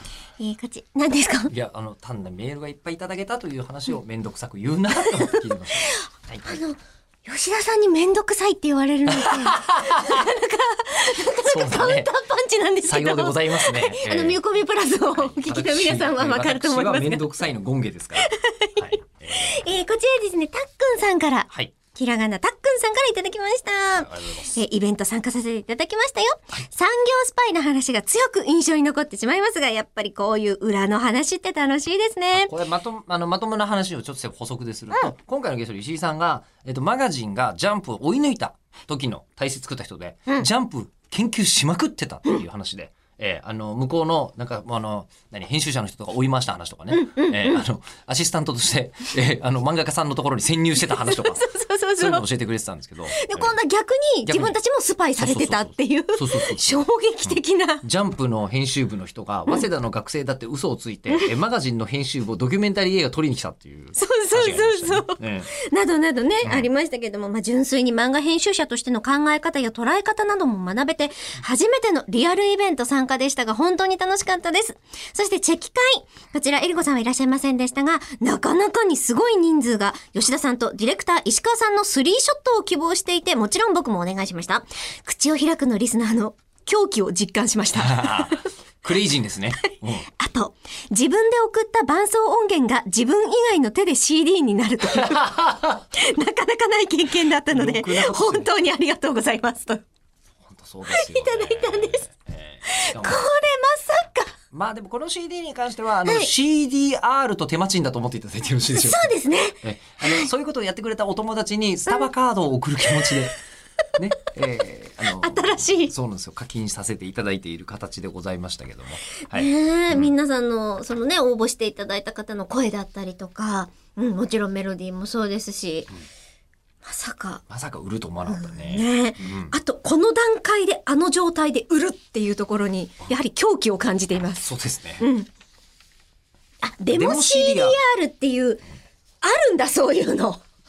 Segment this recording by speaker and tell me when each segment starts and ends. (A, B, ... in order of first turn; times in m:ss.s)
0:00.4-0:01.5 A
0:01.5-0:06.6 B
0:05.9-0:17.3 A
0:09.1-0:10.3 B
0:11.4-0:12.1 B
0:12.8-0:14.4 B
0:15.1-0:19.7 B
0:18.2-0:32.5 A
0:23.9-0:24.6 B
0:32.3-0:53.6 B
0:46.9-0:47.6 A
0:50.8-0:52.2 A
0:53.2-0:57.8 A
0:54.2-0:54.6 B
0:55.2-1:05.5 B
1:04.0-1:28.5 A
1:06.4-1:06.7 B
1:27.8-1:30.1 B
1:30.2-1:39.8 A
1:35.0-1:35.6 B
1:37.5-1:38.5 B
1:40.4-1:43.3 B
1:40.9-1:42.1 A
1:42.7-1:44.3 A
1:44.5-1:53.3 B
1:48.7-1:50.2 A
1:54.0-2:00.1 B
1:55.1-1:55.9 A
1:59.3-2:05.9 A
2:06.8-2:07.4 A
2:07.5-2:09.6 B
2:08.3-2:15.3 A
2:14.4-2:15.1 B
2:16.6-2:18.6 A
2:16.9-2:17.8 B
2:19.2-2:20.4 A